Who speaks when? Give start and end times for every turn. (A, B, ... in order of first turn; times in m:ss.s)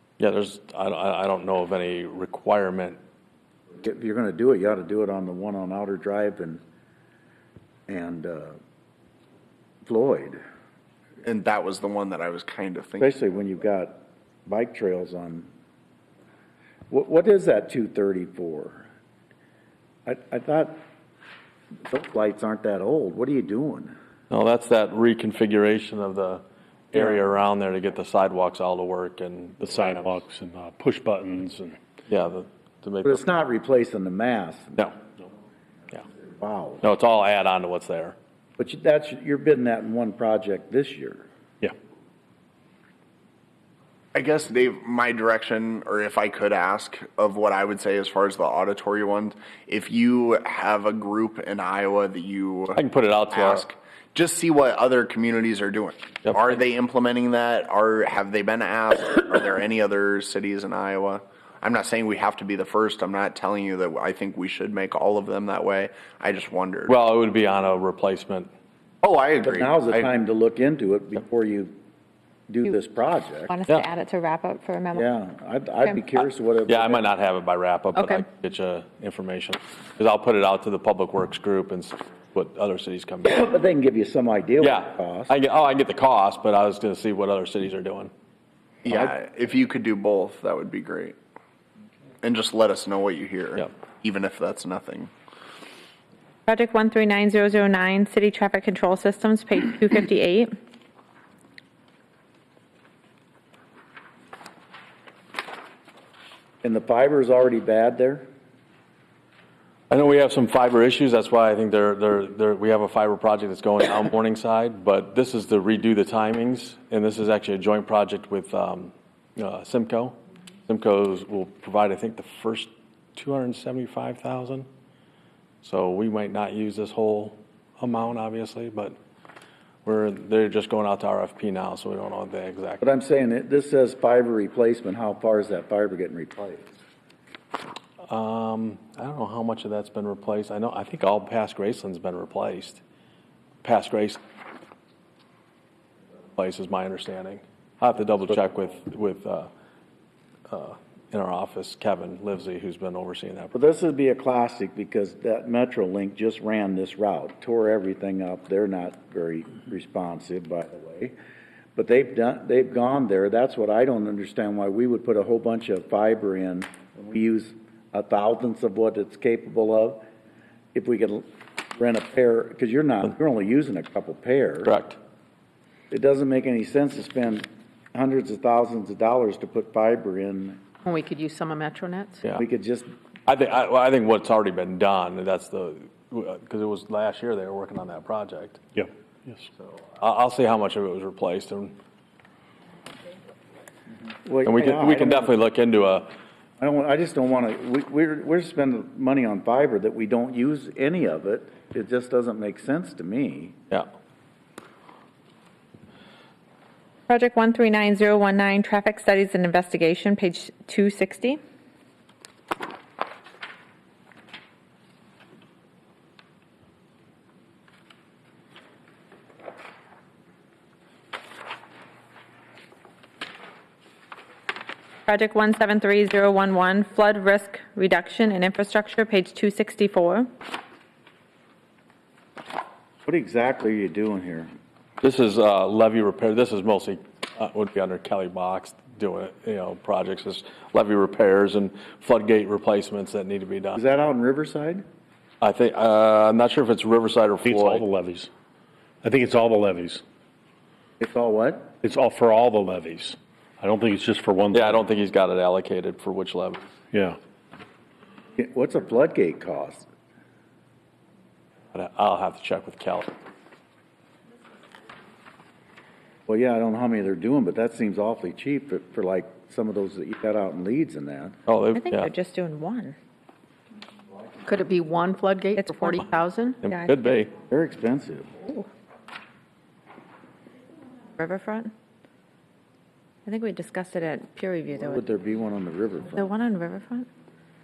0:00.2-0:03.0 A
0:03.8-0:06.6 B
0:07.9-0:08.6 B
0:09.8-0:10.4 B
0:11.2-0:13.1 C
0:13.0-0:15.5 B
0:16.9-0:18.9 B
0:20.0-0:20.8 B
0:21.8-0:23.9 B
0:24.3-0:30.2 A
0:29.6-0:31.8 D
0:32.1-0:33.2 A
0:33.0-0:34.8 B
0:36.3-0:36.8 B
0:36.8-0:38.2 A
0:38.6-0:41.3 B
0:44.1-1:07.0 C
0:52.7-0:53.6 A
1:06.9-1:08.5 A
1:09.0-1:10.1 C
1:09.4-1:11.7 B
1:12.5-1:13.5 B
1:13.5-1:15.0 E
1:14.9-1:17.0 B
1:16.2-1:23.5 A
1:18.0-1:18.2 E
1:23.2-1:25.3 B
1:24.6-1:28.1 A
1:28.8-1:31.2 C
1:32.2-1:35.1 C
1:36.5-1:40.5 E
1:46.6-1:48.2 B
1:49.9-2:00.2 A
2:00.7-2:04.7 A
2:05.6-2:09.0 A
2:09.8-2:12.8 A
2:12.8-2:16.7 B
2:18.0-2:22.8 A
2:23.6-2:24.2 A
2:26.4-2:29.5 A
2:30.5-2:33.6 A
2:33.5-2:41.1 B
2:41.8-2:50.0 B
2:50.7-2:54.7 B
2:54.6-2:55.0 A
2:55.9-3:00.6 B
3:00.8-3:02.2 F
3:01.2-3:02.0 E
3:02.3-3:02.9 B
3:03.3-3:08.6 A
3:08.8-3:09.4 D
3:10.0-3:11.7 A
3:14.2-3:15.3 B
3:14.4-3:16.1 A
3:16.6-3:23.6 B
3:27.1-3:31.4 E
3:45.1-3:50.3 E
3:53.0-3:54.5 B
3:55.0-4:03.8 A
4:03.7-4:04.8 B
4:05.4-4:07.8 A
4:07.4-4:08.3 D
4:09.0-4:10.0 D
4:11.0-4:11.7 B
4:11.8-4:14.8 D
4:14.5-4:16.7 A
4:16.9-4:17.2 D
4:18.4-4:19.9 B
4:21.7-4:23.1 A
4:26.3-4:31.4 B
4:31.5-4:32.1 A
4:31.7-4:33.0 E
4:34.4-4:36.6 F
4:35.5-4:36.1 E
4:36.6-4:37.3 A
4:37.5-4:38.3 B
4:41.2-4:41.7 E
4:43.2-4:45.0 E
4:44.8-4:46.2 B
4:46.2-4:47.1 E